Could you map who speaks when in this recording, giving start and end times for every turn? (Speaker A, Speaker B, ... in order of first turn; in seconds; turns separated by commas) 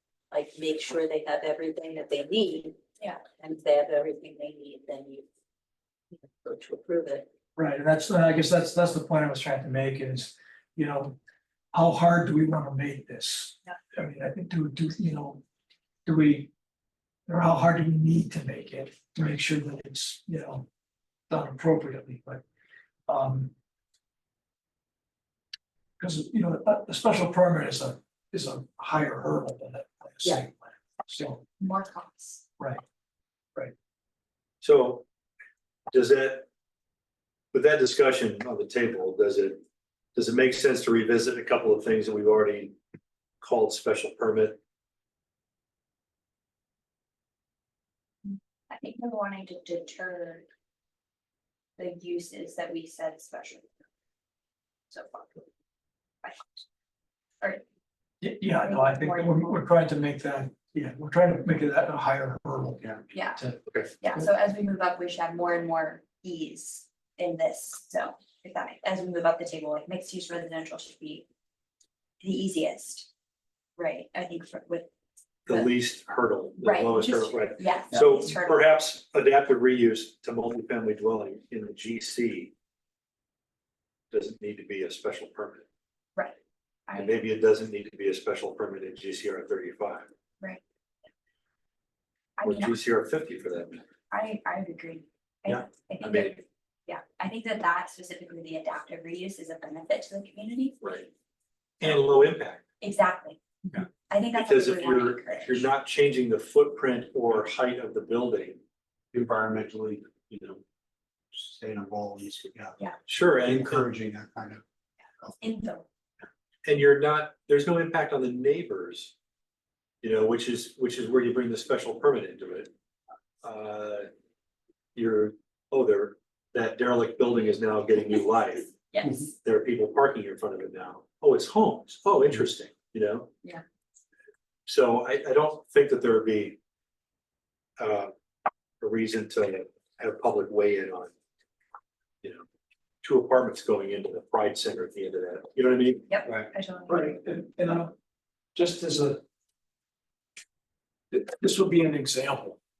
Speaker A: 0.3-2.8, Speaker A: 3.3-5.2, Speaker A: 6.1-7.3, Speaker B: 7.5-11.2, Speaker B: 11.7-15.4, Speaker B: 16.1-16.5, Speaker B: 17.3-20.7, Speaker B: 21.3-22.4, Speaker B: 23.1-23.5, Speaker B: 26.0-31.4, Speaker C: 31.6-32.4, Speaker D: 34.6-35.0, Speaker D: 35.9-36.5, Speaker D: 37.5-39.6, Speaker D: 40.1-42.8, Speaker D: 43.4-44.6, Speaker C: 48.7-50.5, Speaker C: 51.8-53.7, Speaker C: 54.9-55.5, Speaker C: 56.2-56.6, Speaker B: 58.2-63.6, Speaker C: 58.5-59.6, Speaker C: 63.1-63.4, Speaker C: 64.0-71.2, Speaker C: 72.2-73.1, Speaker C: 73.8-74.9, Speaker D: 75.5-82.5, Speaker C: 76.6-78.7, Speaker D: 84.1-85.6, Speaker C: 86.9-87.2, Speaker D: 86.9-90.1, Speaker C: 92.4-92.8, Speaker D: 92.4-93.8, Speaker C: 94.1-101.0, Speaker D: 95.5-96.3, Speaker D: 100.8-101.1, Speaker D: 101.8-102.6, Speaker C: 102.8-103.4, Speaker D: 103.7-108.6, Speaker C: 104.1-105.6, Speaker E: 109.1-110.6, Speaker E: 111.3-114.6, Speaker D: 113.1-113.9, Speaker C: 115.4-115.8, Speaker D: 116.6-119.1, Speaker D: 120.0-122.7, Speaker D: 123.4-124.1, Speaker D: 124.9-128.7, Speaker C: 128.9-129.3, Speaker D: 129.4-133.3, Speaker D: 134.7-136.6, Speaker D: 137.8-138.1, Speaker D: 138.8-141.1, Speaker D: 143.0-146.1, Speaker C: 146.1-147.2, Speaker B: 146.9-147.9, Speaker B: 148.5-149.2, Speaker B: 151.1-152.6